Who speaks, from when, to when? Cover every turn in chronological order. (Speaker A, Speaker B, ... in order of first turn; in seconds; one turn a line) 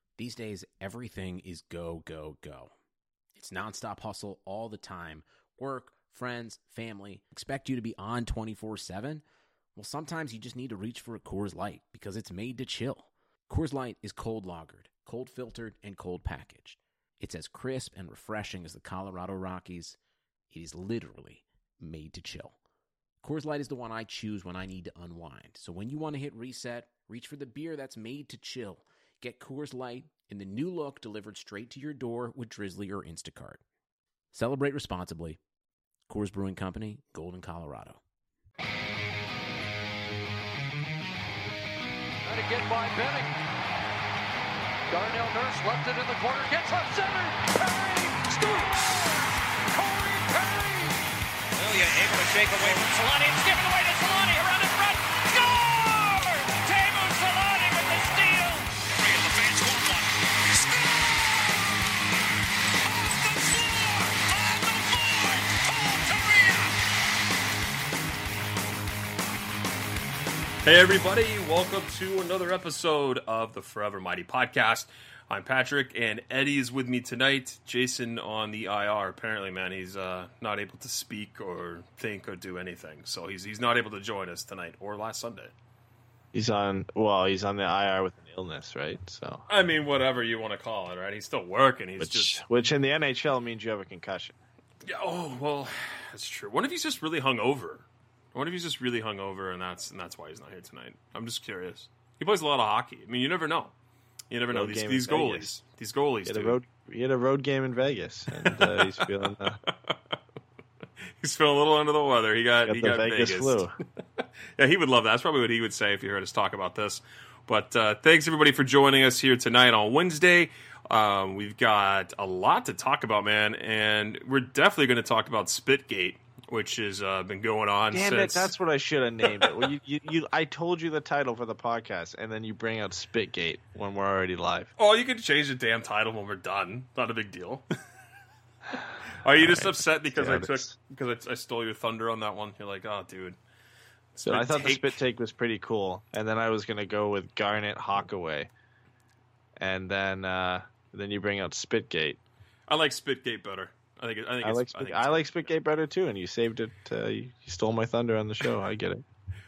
Speaker A: 0.2-2.7
Speaker A: 3.3-9.2
Speaker A: 9.8-20.0
Speaker A: 20.5-22.6
Speaker A: 23.2-33.6
Speaker A: 34.3-35.4
Speaker A: 36.1-38.0
Speaker B: 42.2-43.4
Speaker B: 44.9-49.2
Speaker B: 49.7-51.0
Speaker C: 51.6-61.1
Speaker C: 62.8-66.7
Speaker D: 70.6-85.5
Speaker E: 86.3-89.4
Speaker D: 89.5-92.4
Speaker E: 92.0-94.4
Speaker D: 94.8-103.7
Speaker D: 104.3-106.6
Speaker E: 104.5-105.5
Speaker E: 106.2-109.6
Speaker D: 108.4-109.1
Speaker D: 109.7-110.0
Speaker D: 111.2-113.7
Speaker E: 112.7-113.7
Speaker D: 114.6-128.5
Speaker E: 127.9-134.7
Speaker D: 134.8-137.6
Speaker D: 138.7-143.4
Speaker E: 139.4-140.7
Speaker D: 144.1-145.0
Speaker E: 144.2-148.5
Speaker E: 149.6-152.2
Speaker D: 152.7-155.5
Speaker E: 154.4-159.0